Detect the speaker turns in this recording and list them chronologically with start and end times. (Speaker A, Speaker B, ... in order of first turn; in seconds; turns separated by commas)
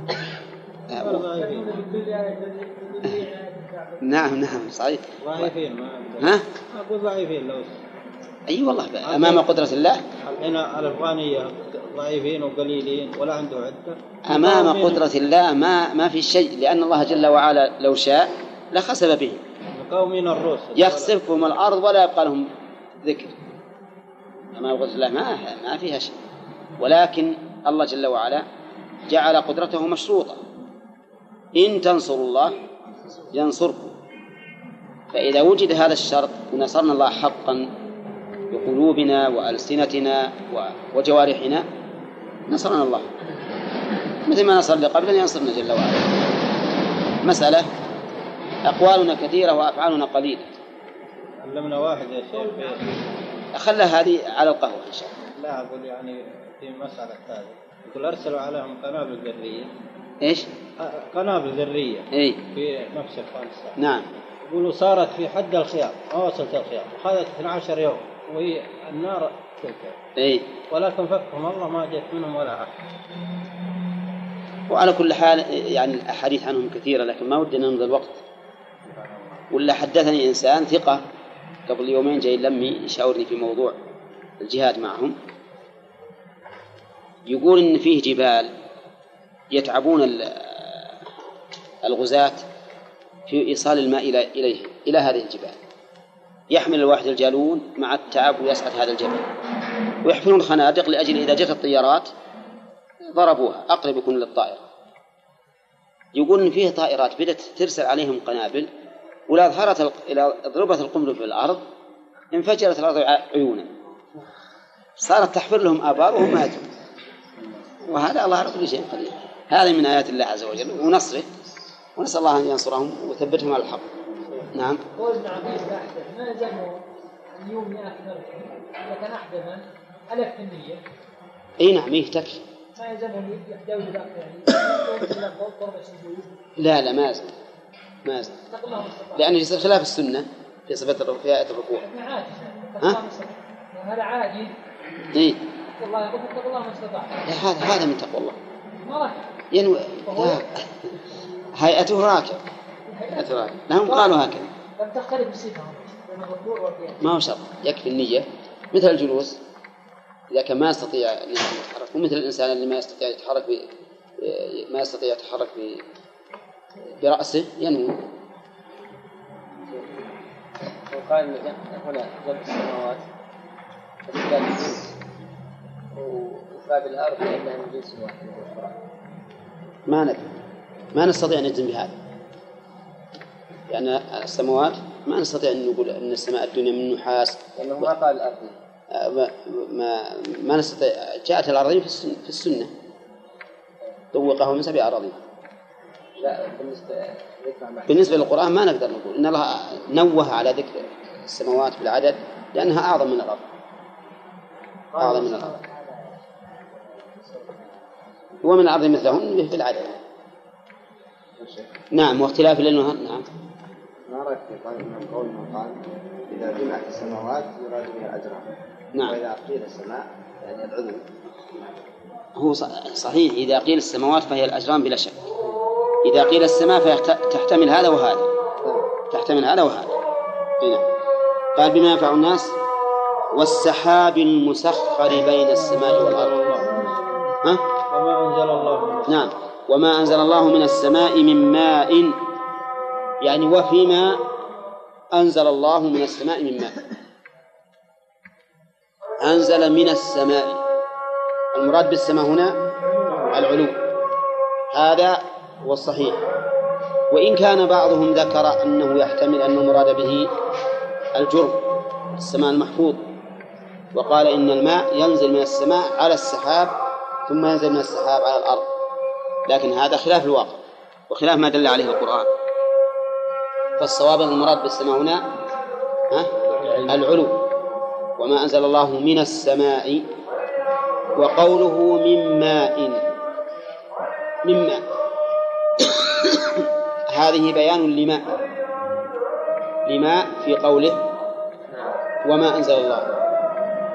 Speaker A: 0.9-1.2, Speaker B: 1.0-1.7, Speaker C: 1.3-4.0, Speaker A: 4.0-5.5, Speaker B: 5.2-7.8, Speaker A: 8.5-10.0, Speaker B: 9.0-9.5, Speaker B: 10.2-15.0, Speaker A: 14.3-19.4, Speaker B: 19.7-21.1, Speaker A: 20.7-22.5, Speaker A: 23.0-23.4, Speaker A: 24.5-26.1, Speaker A: 26.8-28.4, Speaker A: 29.1-30.4, Speaker A: 31.6-32.5, Speaker A: 33.3-33.9, Speaker A: 35.1-37.7, Speaker A: 38.5-41.6, Speaker A: 42.5-43.1, Speaker A: 44.2-46.2, Speaker A: 47.2-47.7, Speaker A: 48.6-50.4, Speaker B: 51.4-52.9, Speaker A: 53.5-55.1, Speaker B: 55.3-59.7, Speaker A: 60.2-60.5, Speaker B: 60.8-63.8, Speaker A: 62.1-62.4, Speaker A: 63.8-64.1, Speaker B: 64.4-70.0, Speaker A: 70.2-70.5, Speaker B: 70.7-72.9, Speaker A: 74.7-78.2, Speaker A: 79.5-81.0, Speaker A: 81.7-83.8, Speaker A: 84.4-85.2, Speaker A: 87.3-88.5, Speaker A: 89.5-90.7, Speaker A: 91.8-92.4, Speaker A: 93.3-95.6, Speaker A: 96.5-99.2, Speaker A: 100.0-102.1, Speaker A: 103.0-104.6, Speaker A: 106.1-108.7, Speaker A: 109.3-111.6, Speaker A: 112.3-113.7, Speaker A: 115.0-116.7, Speaker A: 117.8-121.3, Speaker A: 122.0-123.9, Speaker A: 124.5-124.8, Speaker C: 124.9-126.8, Speaker C: 127.3-130.8, Speaker A: 131.6-132.4, Speaker C: 132.7-136.3, Speaker A: 136.6-137.3, Speaker A: 138.0-138.4, Speaker C: 138.5-139.3, Speaker A: 139.2-141.8, Speaker C: 141.8-144.6, Speaker A: 145.1-145.4, Speaker C: 145.8-147.2, Speaker A: 147.3-148.4, Speaker C: 148.8-149.2, Speaker A: 149.5-150.6, Speaker C: 150.1-150.4, Speaker A: 151.5-152.4, Speaker C: 152.9-154.1, Speaker A: 153.2-154.5, Speaker C: 154.8-157.0, Speaker A: 157.0-159.4, Speaker A: 160.3-163.7, Speaker A: 164.2-165.8, Speaker A: 167.0-168.0, Speaker D: 170.9-173.0, Speaker D: 174.1-174.9, Speaker D: 175.9-178.7, Speaker A: 179.9-180.2, Speaker A: 180.9-181.9, Speaker A: 183.7-187.9, Speaker D: 187.6-188.5, Speaker A: 188.9-192.7, Speaker A: 194.1-195.2, Speaker D: 196.2-198.2, Speaker A: 197.9-203.4, Speaker D: 204.9-206.0, Speaker A: 205.0-205.5, Speaker A: 208.4-210.0, Speaker E: 211.4-211.7, Speaker A: 211.9-213.2, Speaker E: 214.1-215.8, Speaker E: 216.3-221.0, Speaker A: 222.3-225.2, Speaker A: 226.0-228.3, Speaker A: 229.1-229.9, Speaker A: 231.5-232.6, Speaker A: 233.3-236.4, Speaker B: 235.5-236.8, Speaker B: 237.9-239.3, Speaker A: 239.1-242.2, Speaker A: 243.2-244.2, Speaker A: 245.1-246.8, Speaker A: 249.2-250.6, Speaker A: 251.5-252.6, Speaker A: 253.3-253.8, Speaker A: 254.7-256.2, Speaker A: 257.1-260.3, Speaker A: 261.1-261.6, Speaker A: 262.1-263.0, Speaker A: 263.9-266.7, Speaker A: 267.3-268.6, Speaker A: 269.5-272.3, Speaker A: 273.8-275.2, Speaker A: 276.1-277.4, Speaker A: 278.2-280.0, Speaker A: 281.1-283.0, Speaker A: 284.4-284.8, Speaker A: 287.1-288.4, Speaker A: 289.9-291.0, Speaker A: 292.2-293.1